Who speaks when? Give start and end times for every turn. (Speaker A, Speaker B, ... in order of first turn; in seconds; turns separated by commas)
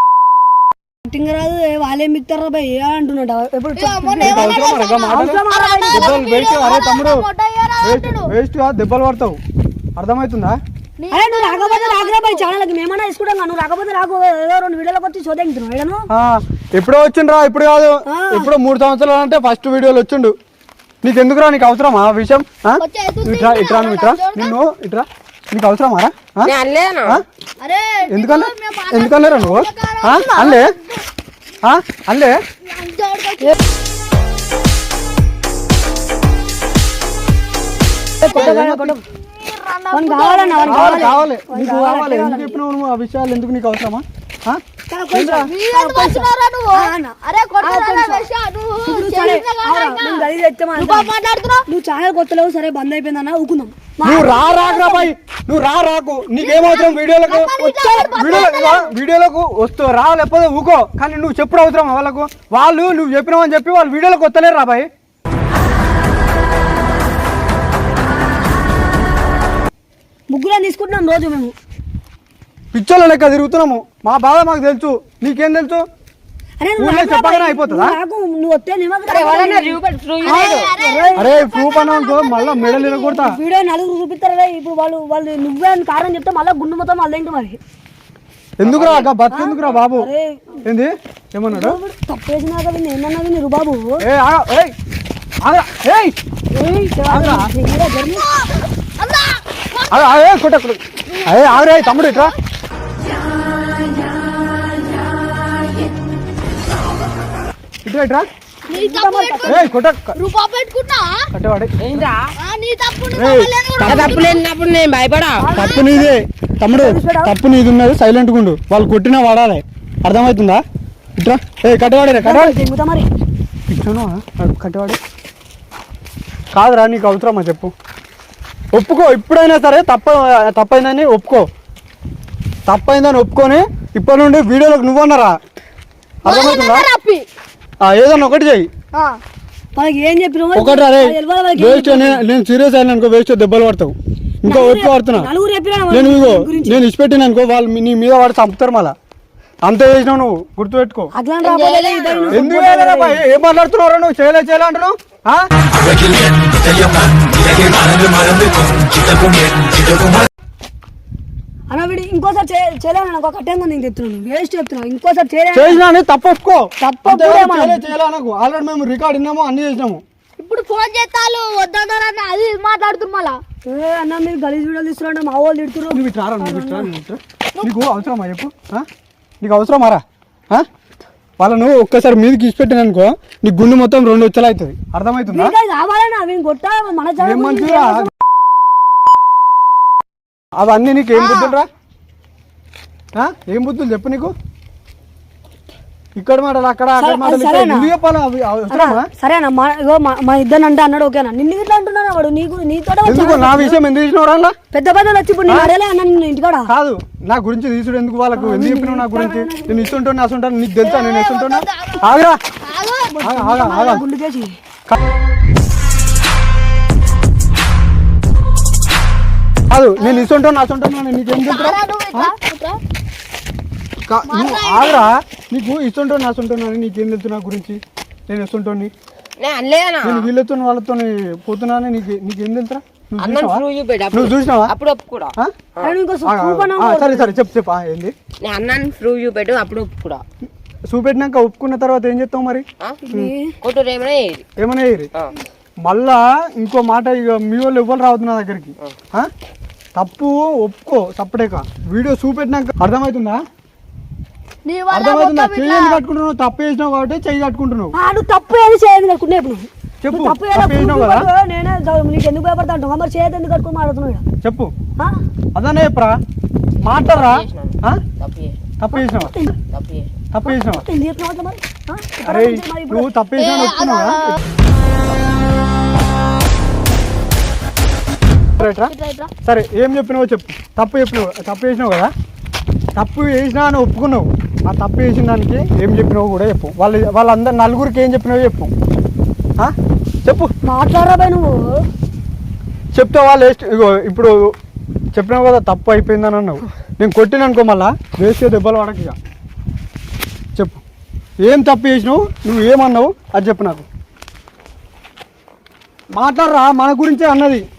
Speaker A: 1.1-6.2, Speaker B: 3.8-8.3, Speaker C: 4.2-7.2, Speaker C: 7.8-9.4, Speaker C: 10.0-10.6, Speaker B: 11.0-12.5, Speaker A: 11.1-16.1, Speaker C: 16.1-20.3, Speaker A: 18.1-18.5, Speaker C: 21.0-26.5, Speaker B: 22.8-24.6, Speaker D: 26.4-27.2, Speaker B: 27.6-31.0, Speaker C: 28.1-30.7, Speaker C: 31.6-32.4, Speaker B: 32.6-33.6, Speaker A: 38.2-39.0, Speaker B: 38.2-38.5, Speaker C: 38.3-39.0, Speaker B: 39.1-41.2, Speaker A: 39.9-42.6, Speaker C: 40.7-44.6, Speaker A: 44.9-48.3, Speaker C: 45.1-45.5, Speaker B: 45.4-51.6, Speaker A: 48.9-51.1, Speaker A: 51.7-55.1, Speaker C: 54.0-64.9, Speaker B: 56.4-58.9, Speaker A: 57.6-58.5, Speaker A: 70.3-71.5, Speaker C: 72.7-75.8, Speaker A: 76.6-81.3, Speaker C: 76.8-78.0, Speaker D: 79.1-80.7, Speaker B: 80.2-83.2, Speaker C: 81.2-83.4, Speaker A: 83.1-87.6, Speaker C: 88.6-90.1, Speaker D: 88.6-89.1, Speaker A: 89.3-90.6, Speaker C: 90.6-91.8, Speaker A: 91.5-94.0, Speaker C: 94.0-94.7, Speaker C: 95.4-96.2, Speaker A: 96.5-98.3, Speaker C: 97.1-97.5, Speaker B: 98.1-98.5, Speaker B: 99.0-100.2, Speaker C: 99.9-102.3, Speaker B: 101.1-102.3, Speaker C: 107.8-108.3, Speaker B: 108.7-111.3, Speaker A: 108.7-109.7, Speaker C: 109.4-110.2, Speaker C: 111.3-112.1, Speaker D: 111.8-112.3, Speaker B: 112.4-114.4, Speaker C: 113.2-114.2, Speaker D: 113.8-115.5, Speaker A: 115.4-116.2, Speaker C: 115.5-120.6, Speaker A: 116.7-117.3, Speaker C: 121.2-122.6, Speaker A: 122.2-123.0, Speaker C: 123.7-125.0, Speaker C: 126.5-127.7, Speaker C: 128.7-131.5, Speaker C: 132.7-135.4, Speaker C: 136.2-136.8, Speaker B: 136.2-137.2, Speaker C: 137.8-138.7, Speaker A: 139.8-142.2, Speaker C: 140.5-143.9, Speaker C: 144.4-145.3, Speaker A: 144.5-146.8, Speaker C: 145.9-148.9, Speaker C: 149.7-151.1, Speaker A: 151.1-153.2, Speaker D: 151.4-152.4, Speaker C: 152.3-155.5, Speaker A: 161.7-165.8, Speaker C: 165.5-170.0, Speaker A: 166.8-167.9, Speaker B: 170.4-173.4, Speaker A: 173.7-176.9, Speaker C: 175.9-178.8, Speaker C: 179.4-180.7, Speaker C: 181.4-185.5, Speaker A: 185.2-188.1, Speaker C: 187.2-188.1, Speaker C: 190.6-191.7, Speaker B: 191.2-191.6, Speaker C: 193.2-194.3, Speaker C: 196.2-199.0, Speaker A: 197.0-197.9, Speaker A: 198.7-203.8, Speaker C: 203.1-204.5, Speaker A: 204.7-206.7, Speaker C: 206.7-212.4, Speaker A: 208.3-210.0, Speaker B: 210.8-212.1, Speaker B: 212.6-213.2, Speaker A: 213.1-214.6, Speaker C: 213.2-214.0, Speaker C: 219.7-222.3, Speaker B: 220.0-220.2, Speaker B: 221.3-222.8, Speaker C: 224.1-228.9, Speaker B: 224.3-225.1, Speaker D: 229.4-230.3, Speaker C: 230.0-234.7, Speaker D: 233.2-235.9, Speaker A: 235.8-237.3, Speaker C: 236.2-238.1, Speaker D: 238.4-240.2, Speaker C: 240.9-243.3, Speaker A: 243.1-243.5, Speaker D: 243.6-244.4, Speaker C: 244.6-245.1, Speaker C: 245.8-249.3, Speaker C: 249.9-253.4, Speaker B: 254.6-256.0, Speaker C: 254.9-257.9, Speaker A: 257.9-264.2, Speaker C: 260.0-261.3, Speaker C: 264.4-264.7, Speaker C: 265.5-266.2, Speaker C: 266.8-268.0, Speaker D: 266.8-268.6, Speaker C: 268.8-269.3, Speaker A: 268.9-269.5, Speaker D: 269.7-270.1, Speaker C: 270.3-270.8, Speaker A: 270.4-273.1, Speaker C: 272.2-274.4, Speaker B: 273.4-274.3, Speaker C: 278.6-278.9, Speaker B: 278.6-279.3, Speaker C: 279.4-282.1, Speaker C: 282.9-288.7, Speaker A: 290.6-291.8, Speaker C: 292.9-294.3, Speaker C: 295.1-299.1, Speaker C: 300.6-300.8, Speaker C: 301.4-303.9, Speaker C: 306.1-307.6